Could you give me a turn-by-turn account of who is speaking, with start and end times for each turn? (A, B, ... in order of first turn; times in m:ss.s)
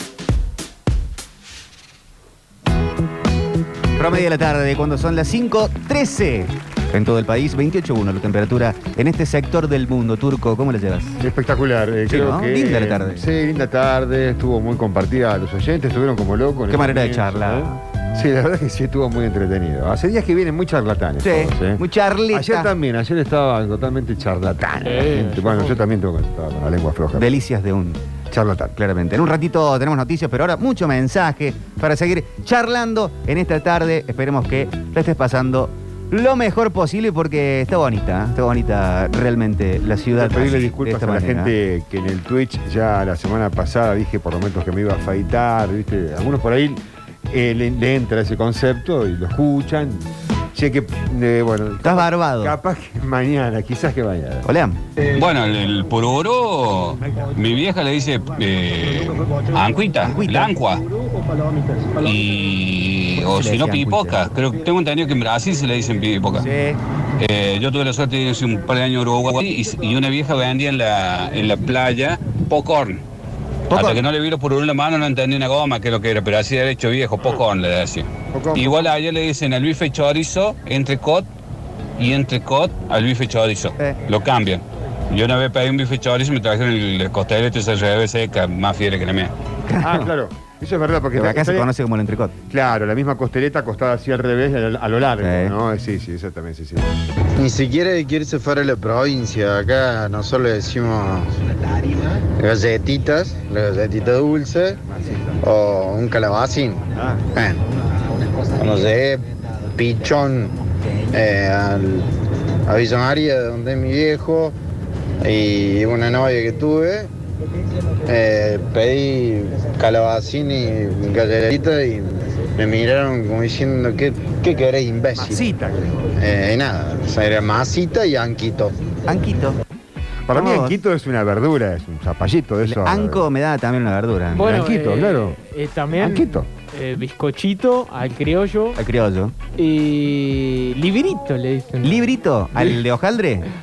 0:04.0-0:11.2 A
0:11.2-0:21.8 B
0:12.1-0:13.2 A
0:16.7-0:17.8 A
0:21.2-0:22.7 A
0:22.3-0:27.3 B
0:24.8-0:25.8 C
0:27.1-0:28.0 A
0:28.3-0:28.7 B
0:28.8-0:41.5 A
0:40.0-0:54.4 B
0:51.8-0:52.6 A
0:54.4-0:54.8 A
0:55.1-1:00.9 D
1:00.0-1:00.5 A
1:02.0-1:06.5 D
1:03.2-1:04.2 A
1:06.4-1:06.8 A
1:07.2-1:13.0 D
1:13.7-1:14.0 A
1:13.7-1:21.3 D
1:18.3-1:18.9 B
1:22.0-1:29.3 D
1:29.7-1:30.1 A
1:29.8-1:31.7 B
1:31.1-1:32.3 A
1:32.5-1:36.9 B
1:35.2-1:35.6 A
1:37.4-1:41.3 E
1:42.4-1:44.8 E
1:44.9-1:45.4 B
1:45.4-1:47.6 E
1:47.0-1:47.2 B
1:48.5-1:50.6 E
1:51.1-1:52.1 E
1:52.7-1:54.6 E
1:55.2-1:57.1 E
1:58.0-2:05.5 E
2:05.2-2:05.6 A
2:05.2-2:06.0 B
2:06.2-2:08.8 E
2:09.0-2:09.6 A
2:10.3-2:13.2 B
2:10.3-2:10.8 A
2:12.6-2:14.6 A
2:14.3-2:18.8 C
2:14.3-2:15.4 B
2:16.0-2:16.5 B
2:18.8-2:19.3 A
2:19.6-2:22.8 C
2:21.8-2:23.5 A